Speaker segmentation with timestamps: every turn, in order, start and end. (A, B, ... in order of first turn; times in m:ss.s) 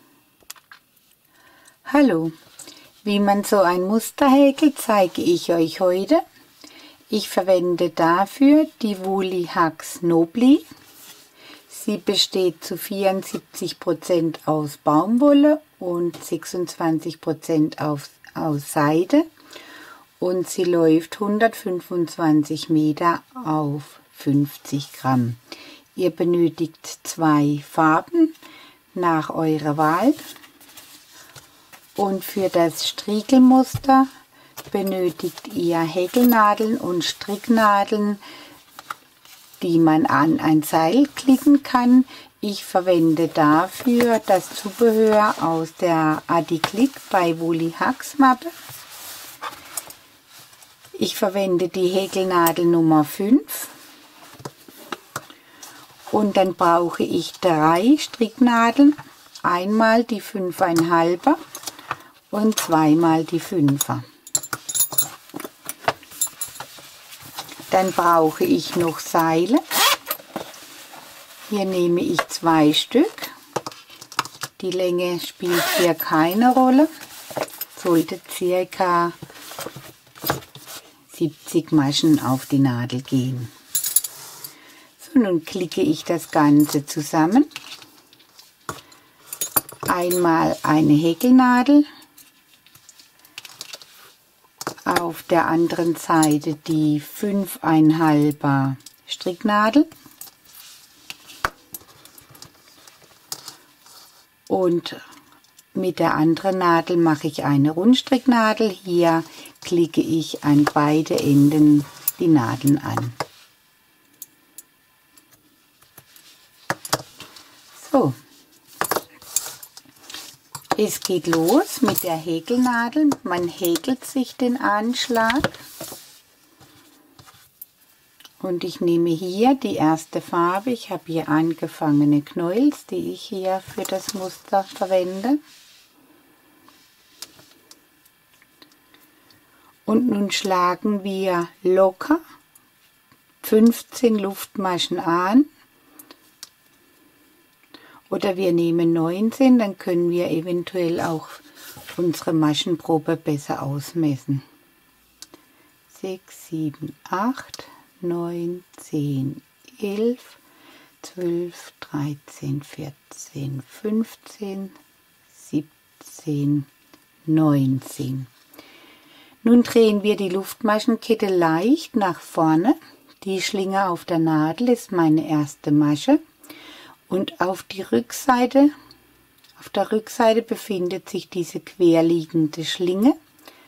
0:01.9-0:02.3 A
0:03.0-0:06.2 A
0:07.1-0:10.6 A
0:11.7-0:19.3 A
0:20.2-0:25.4 A
0:26.0-0:28.4 A
0:28.9-0:30.2 A
0:32.0-0:34.1 A
0:34.7-0:38.2 A
0:39.6-0:48.5 A
0:51.0-0:53.7 A
0:56.1-1:01.4 A
1:02.3-1:04.0 A
1:07.7-1:09.6 A
1:11.5-1:13.3 A
1:14.6-1:16.9 A
1:17.7-1:19.2 A
1:21.1-1:23.5 A
1:25.0-1:27.5 A
1:29.9-1:31.9 A
1:34.9-1:39.9 A
1:44.5-1:45.0 A
1:45.8-1:53.2 A
1:57.8-1:58.2 A
2:00.8-2:05.6 A
2:08.4-2:15.4 A
2:19.9-2:22.2 A
2:23.4-2:25.5 A
2:28.1-2:31.4 A
2:31.9-2:34.4 A
2:35.9-2:40.4 A
2:41.0-2:44.8 A
2:45.4-2:46.7 A
2:47.3-2:48.3 A
2:49.4-2:56.2 A
2:57.1-2:58.7 A
2:59.6-3:03.2 A